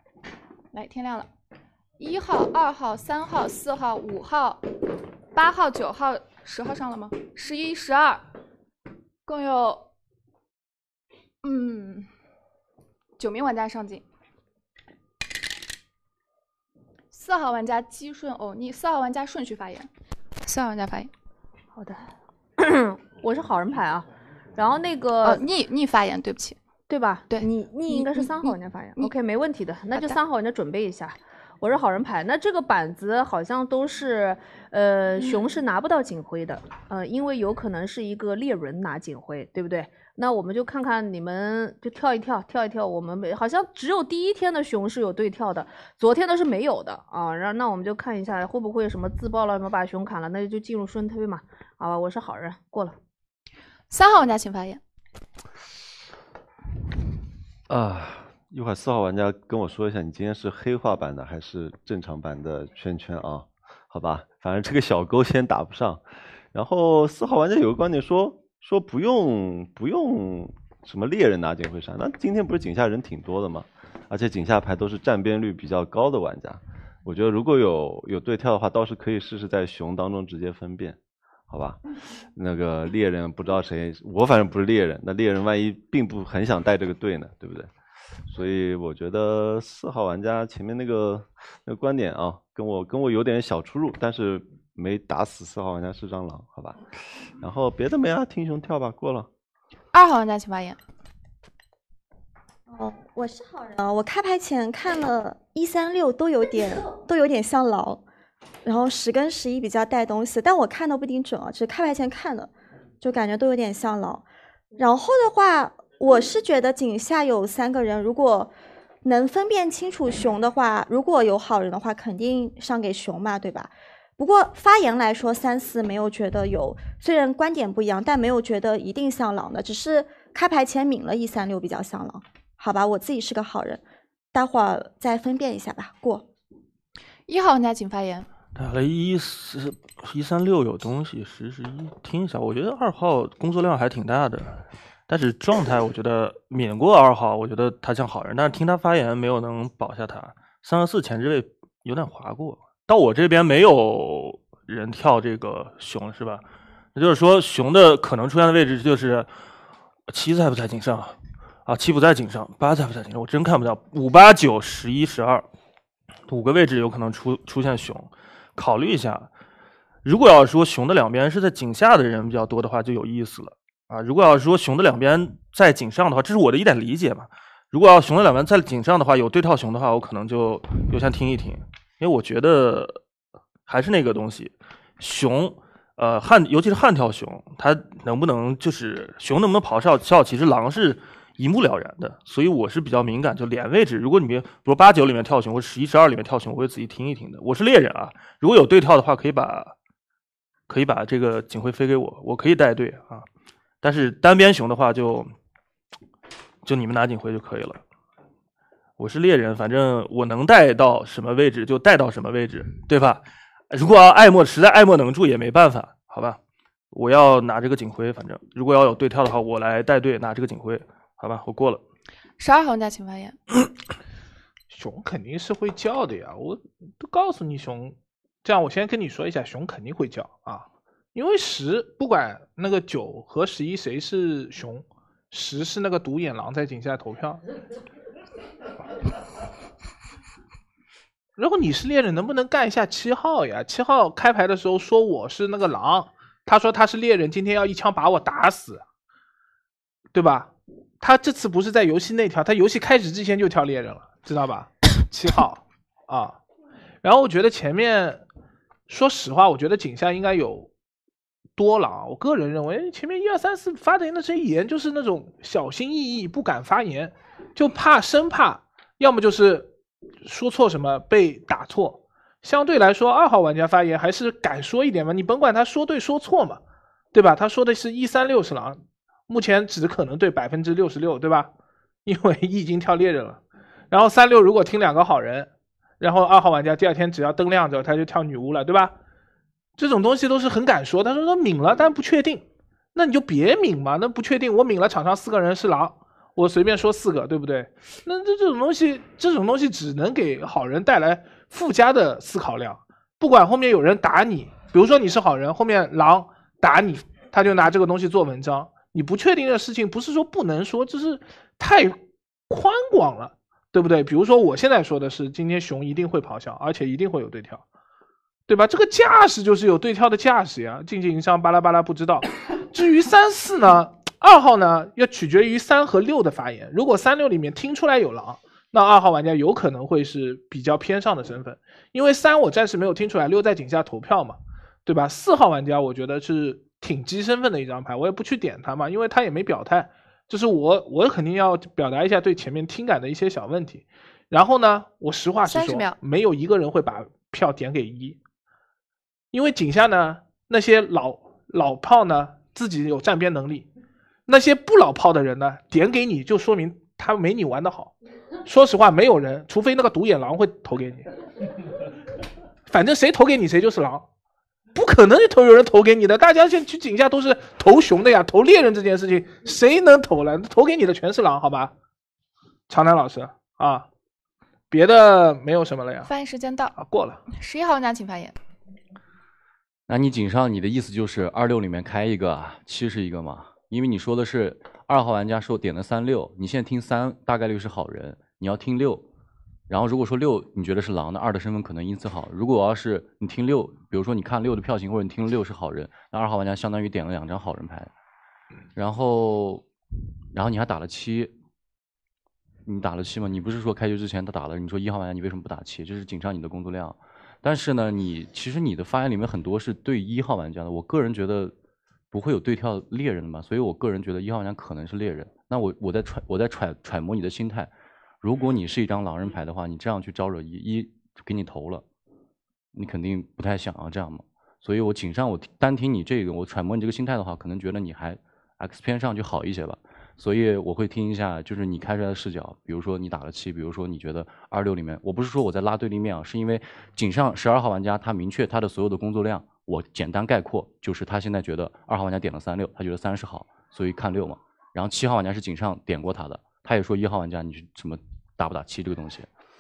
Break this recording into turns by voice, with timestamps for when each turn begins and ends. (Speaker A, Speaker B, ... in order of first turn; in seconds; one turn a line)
Speaker A: 0.7-1.3
Speaker A: 2.0-4.6
Speaker A: 5.3-8.2
Speaker A: 9.3-9.9
Speaker A: 11.4-12.1
Speaker A: 13.2-14.0
Speaker A: 17.1-19.9
Speaker A: 20.4-21.1
Speaker B: 21.8-22.1
Speaker B: 22.6-25.4
Speaker A: 25.2-26.6
Speaker B: 26.9-53.0
Speaker A: 53.9-54.8
Speaker C: 57.7-81.0
Speaker C: 81.5-87.7
Speaker C: 88.3-99.3
Speaker A: 99.9-100.8
Speaker D: 102.7-108.0
Speaker D: 108.7-114.2
Speaker D: 114.8-136.3
Speaker A: 137.3-138.3
Speaker E: 138.6-156.4
Speaker E: 156.9-159.3
Speaker E: 160.1-165.5
Speaker E: 166.3-169.3
Speaker E: 170.0-183.0
Speaker E: 183.7-199.8
Speaker E: 200.7-203.3
Speaker E: 203.8-205.3
Speaker E: 206.6-207.8
Speaker E: 209.0-216.4
Speaker E: 216.9-221.8
Speaker A: 222.4-223.4
Speaker F: 224.7-237.4
Speaker F: 241.4-248.8
Speaker F: 250.1-256.4
Speaker F: 257.0-258.2
Speaker F: 258.9-260.7
Speaker F: 261.6-269.7
Speaker F: 270.2-276.6
Speaker F: 277.1-281.5
Speaker F: 282.1-288.9
Speaker F: 289.8-317.6
Speaker F: 318.5-348.2
Speaker A: 345.5-346.0
Speaker F: 349.3-353.7
Speaker F: 354.3-357.9
Speaker F: 358.4-361.1
Speaker F: 362.7-364.1
Speaker F: 364.7-371.7
Speaker F: 372.7-373.9
Speaker F: 374.7-376.1
Speaker A: 376.1-376.8
Speaker F: 376.8-377.2
Speaker A: 377.3-378.3
Speaker G: 379.9-389.1
Speaker G: 389.7-397.9
Speaker G: 398.8-399.6
Speaker G: 400.3-401.3
Speaker G: 402.7-411.5
Speaker G: 412.1-417.7
Speaker G: 418.2-421.8
Speaker G: 422.7-449.3